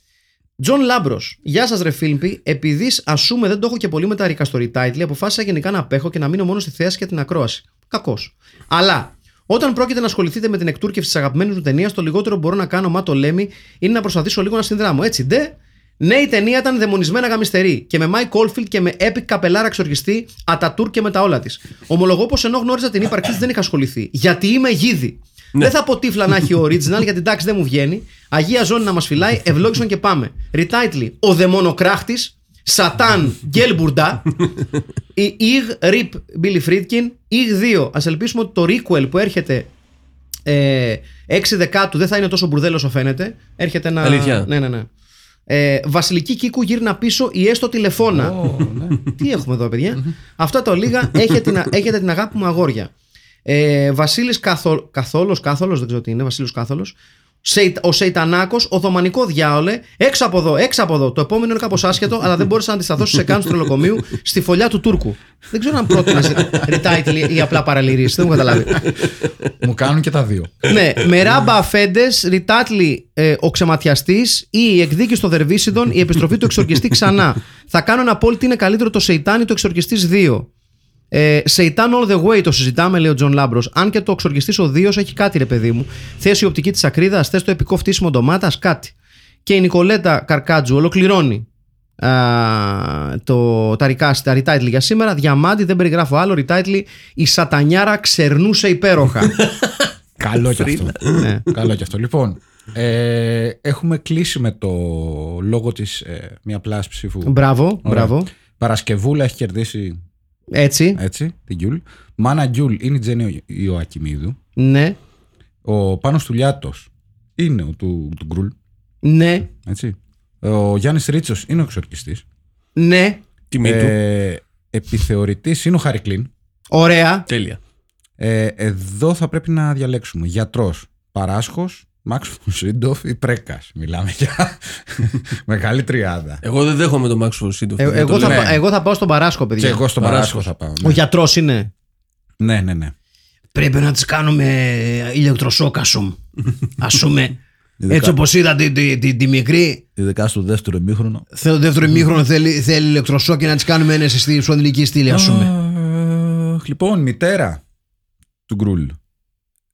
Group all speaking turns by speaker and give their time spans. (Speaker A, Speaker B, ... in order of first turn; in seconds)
Speaker A: 0.6-34.3, 35.2-39.7, 40.5-44.9, 45.5-48.4, 49.1-52.9, 53.5-68.8, 70.7-80.5, 81.1-88.9, 89.5-91.5, 92.0-99.4, 101.1-101.5, 107.3-108.3, 110.5-111.0, 114.6-115.0, 119.0-119.5, 122.8-123.2, 126.7-127.3, 137.8-139.8, 140.8-141.7, 143.5-146.2, 146.8-147.4, 147.9-149.8, 151.3-155.5
Speaker B: 44.0-44.5, 99.4-99.8, 100.5-101.3, 123.5-124.0, 127.3-127.6, 136.4-138.5, 140.0-140.5
Speaker C: 48.1-49.0, 69.6-70.7, 100.2-110.0, 111.0-114.4, 115.7-118.5, 119.6-122.2, 123.6-126.3, 128.2-136.4, 138.2-138.6, 139.6-141.0, 142.4-142.9, 147.8-148.2, 150.0-151.2, 155.1-157.6, 158.5-159.0